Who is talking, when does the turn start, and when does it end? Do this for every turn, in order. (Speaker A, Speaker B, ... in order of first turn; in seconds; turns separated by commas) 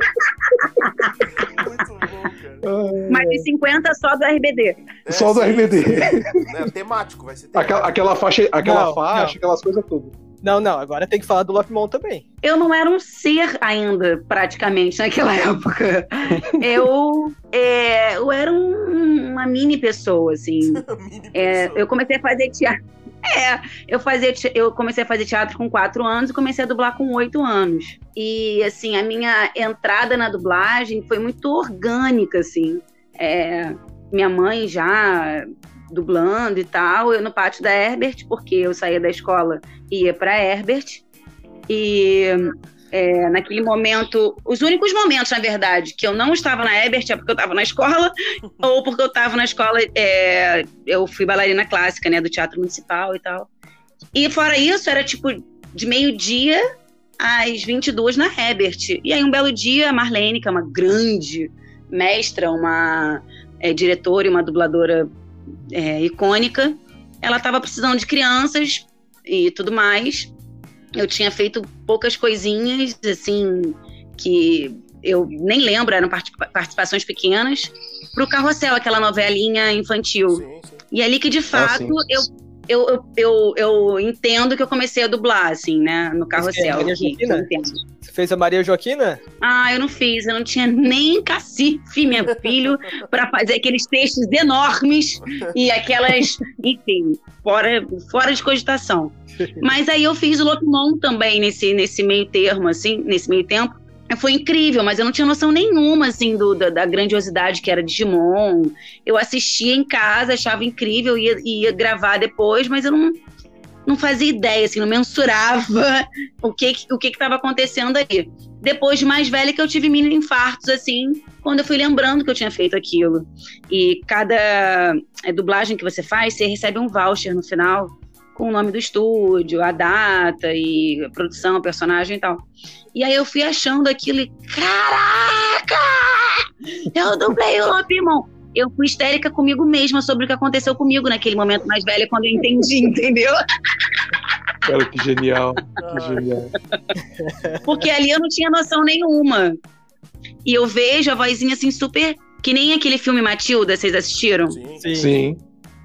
Speaker A: 0.8-1.1, Speaker B: 1.3-2.6, Speaker C: 2.6-3.5, Speaker A: 3.1-4.9, Speaker B: 5.0-8.0, Speaker C: 5.1-6.4, Speaker C: 7.5-10.1, Speaker D: 8.6-9.3, Speaker D: 10.4-12.2, Speaker A: 12.4-20.8, Speaker B: 20.7-21.9, Speaker A: 21.3-41.0, Speaker A: 41.7-53.5, Speaker A: 54.1-56.6, Speaker A: 57.2-65.1, Speaker A: 65.7-70.3, Speaker A: 71.0-87.8, Speaker B: 80.3-80.8, Speaker C: 81.5-82.2, Speaker D: 86.3-87.5, Speaker D: 88.0-89.2, Speaker A: 89.4-113.2, Speaker A: 113.9-143.4, Speaker C: 144.6-146.5, Speaker B: 145.8-146.3, Speaker D: 147.2-147.6, Speaker A: 147.6-149.6, Speaker A: 150.4-154.6, Speaker B: 154.5-154.9, Speaker D: 154.8-155.2, Speaker C: 154.9-155.4